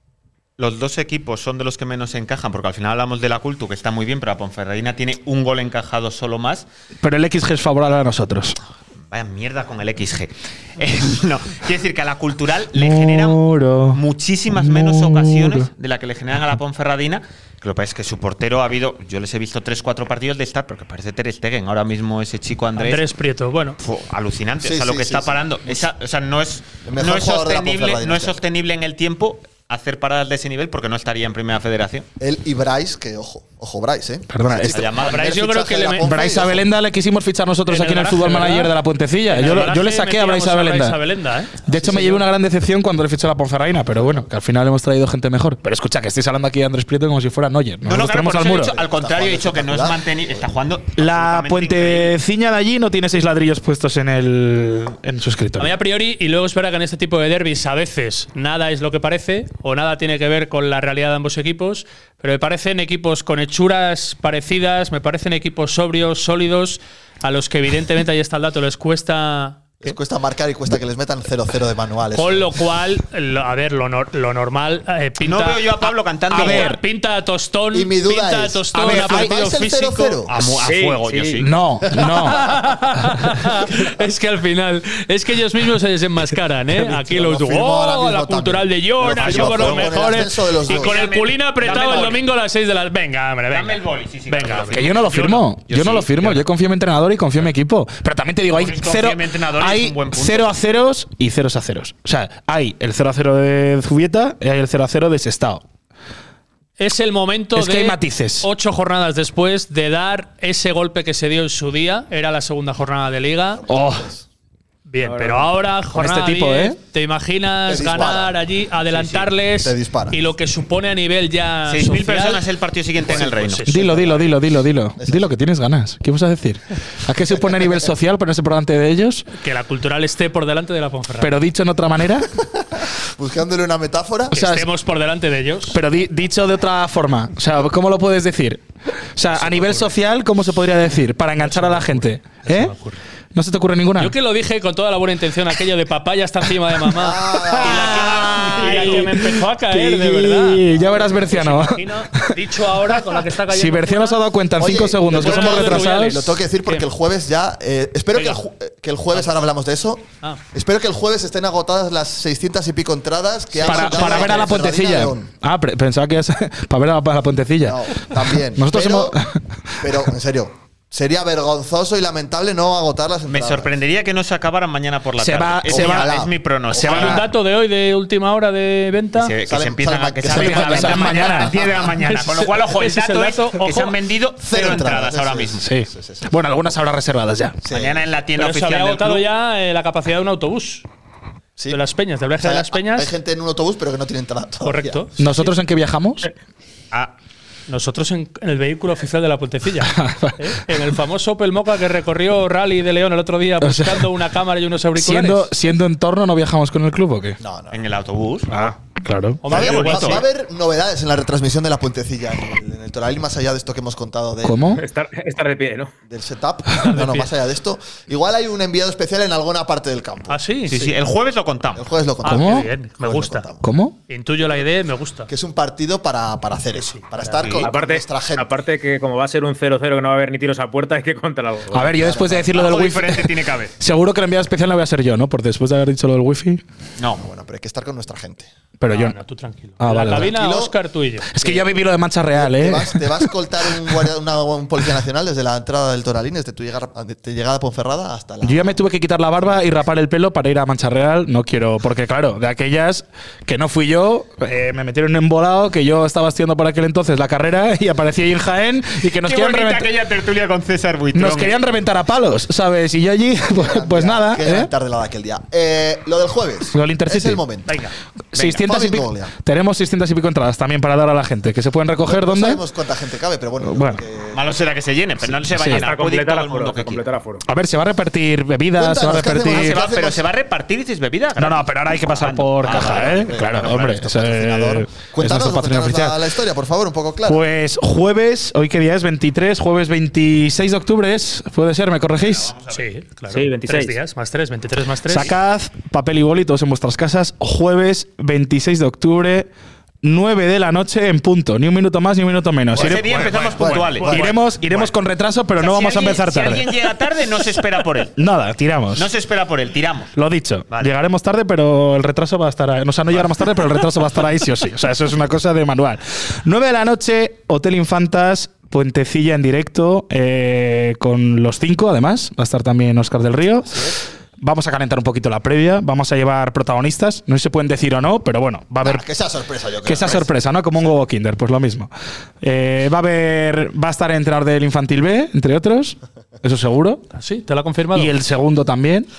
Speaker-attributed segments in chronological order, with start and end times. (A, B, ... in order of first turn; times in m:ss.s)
0:00.6-0:06.7 A
0:07.0-0:08.6 B
0:09.1-0:23.0 A
0:12.7-0:14.0 B
0:14.5-0:15.7 B
0:22.8-0:23.8 C
0:23.8-0:32.1 A
0:24.6-0:25.9 D
0:26.8-0:28.4 D
0:32.2-0:36.7 D
0:34.3-0:34.9 B
0:34.6-0:35.3 A
0:35.0-0:36.1 C
0:36.0-0:41.0 B
0:37.7-0:38.7 C
0:39.3-0:41.6 C
0:41.6-0:48.8 B
0:41.7-0:42.2 D
0:44.0-0:44.2 D
0:47.8-0:52.1 A
0:48.8-0:50.5 D
0:51.0-0:55.8 B
0:55.6-1:09.6 C
1:09.8-1:12.5 D
1:12.1-1:20.2 C
1:15.2-1:16.8 A
1:16.3-1:16.8 B
1:17.7-1:20.3 D
1:18.7-1:19.4 B
1:20.3-1:21.5 A
1:20.6-1:21.5 E
1:21.4-1:22.4 B
1:22.3-1:35.5 C
1:26.8-1:31.0 D
1:29.2-1:30.1 A
1:30.6-1:32.2 A
1:33.5-1:35.0 A
1:34.7-1:45.6 B
1:35.7-1:36.3 A
1:38.5-1:40.5 A
1:46.8-1:53.6 C
1:47.6-1:48.5 B
1:53.6-1:54.2 D
1:53.7-1:54.1 B
1:54.9-2:02.4 C
1:55.0-1:55.5 E
1:55.9-1:56.8 B
1:57.7-1:58.4 D
1:58.9-1:59.2 A
1:59.4-2:00.2 D
2:01.7-2:03.7 A
2:03.0-2:03.9 C
2:03.1-2:05.4 D
2:03.7-2:09.3 B
2:07.3-2:07.8 D
2:09.3-2:11.3 C
2:11.2-2:12.3 B
2:12.8-2:14.4 D
2:14.3-2:14.7 B
2:14.3-2:15.8 C
2:15.7-2:18.6 B
2:19.2-2:22.7 B
2:21.4-2:23.0 C
2:23.3-2:24.2 B
2:24.0-2:34.2 C
2:26.9-2:28.9 D
2:27.8-2:32.4 B
2:28.2-2:29.1 A
2:30.7-2:31.3 D
2:33.5-2:36.4 B
2:34.6-2:45.3 D
2:35.1-2:36.9 C
2:38.1-2:38.4 C
2:43.5-2:44.6 C
2:43.6-2:50.0 B
2:47.6-2:49.2 D
2:49.8-2:53.7 D
2:53.3-2:57.2 A
2:55.2-2:56.1 B
2:55.7-2:57.3 D
2:56.8-2:57.2 B
2:56.9-2:59.4 C
2:59.2-3:05.7 A
2:59.5-3:01.5 D
3:00.2-3:01.5 B
3:02.0-3:04.0 C
3:04.4-3:06.4 D
3:05.6-3:07.6 B
3:07.6-3:08.0 D
3:07.7-3:09.3 A
3:08.4-3:10.8 C
3:11.7-3:13.1 C
3:12.4-3:15.0 D
3:14.6-3:15.5 C
3:15.2-3:16.3 B
3:17.7-3:25.5 C
3:19.8-3:20.6 B
3:23.6-3:24.1 B
3:25.0-3:27.4 B
3:27.4-3:27.8 D
3:27.7-3:28.5 A
3:28.5-3:29.9 B
3:29.4-3:30.2 C
3:29.5-3:30.2 A
3:29.5-3:34.7 D
3:34.4-3:34.8 B
3:34.8-3:35.9 E
3:36.1-3:40.9 D
3:36.8-3:37.3 C
3:40.3-3:40.8 C
3:40.7-3:41.8 A
3:41.8-3:43.7 D
3:42.2-3:43.5 C
3:42.2-3:42.7 B
3:43.6-3:44.0 B
3:44.1-3:45.3 C
3:45.3-3:48.6 D
3:46.8-3:47.4 C
3:47.4-3:47.7 A
3:47.6-3:52.2 E
3:51.7-3:56.6 B
3:52.0-3:52.5 D
3:52.5-3:53.7 A
3:57.0-3:57.2 A
3:57.2-3:58.5 D
3:58.8-3:59.2 B
3:58.9-4:01.3 C
3:59.8-4:00.4 B
4:00.0-4:00.8 D
4:01.3-4:03.3 B
4:01.4-4:01.7 D
4:02.3-4:08.8 D
4:08.4-4:19.9 B
4:19.2-4:21.6 A
4:21.1-4:24.7 B
4:23.5-4:27.7 D
4:26.7-4:27.4 B
4:27.7-4:27.9 C
4:28.3-4:32.6 B
4:28.4-4:29.3 D
4:32.0-4:34.4 D
4:33.6-4:34.0 B
4:34.3-4:37.1 A
4:35.5-4:35.8 B
4:35.7-4:37.4 E
4:37.4-4:39.8 B
4:38.8-4:40.2 D
4:39.4-4:44.0 A
4:41.4-4:46.3 B
4:42.6-4:47.4 D
4:47.3-4:52.5 B
4:52.2-4:52.9 A
4:52.7-4:55.3 C
4:53.3-4:54.0 E
4:55.1-4:59.5 B
5:00.0-5:06.8 B
5:02.7-5:04.8 A
5:03.1-5:04.1 C
5:03.6-5:04.4 D
5:05.6-5:08.2 A
5:08.2-5:09.1 B
5:09.0-5:10.1 A
5:10.2-5:29.1 B
5:23.7-5:24.0 D
5:28.8-5:30.3 D
5:29.8-5:37.0 B
5:37.1-5:38.2 C
5:37.9-5:39.1 B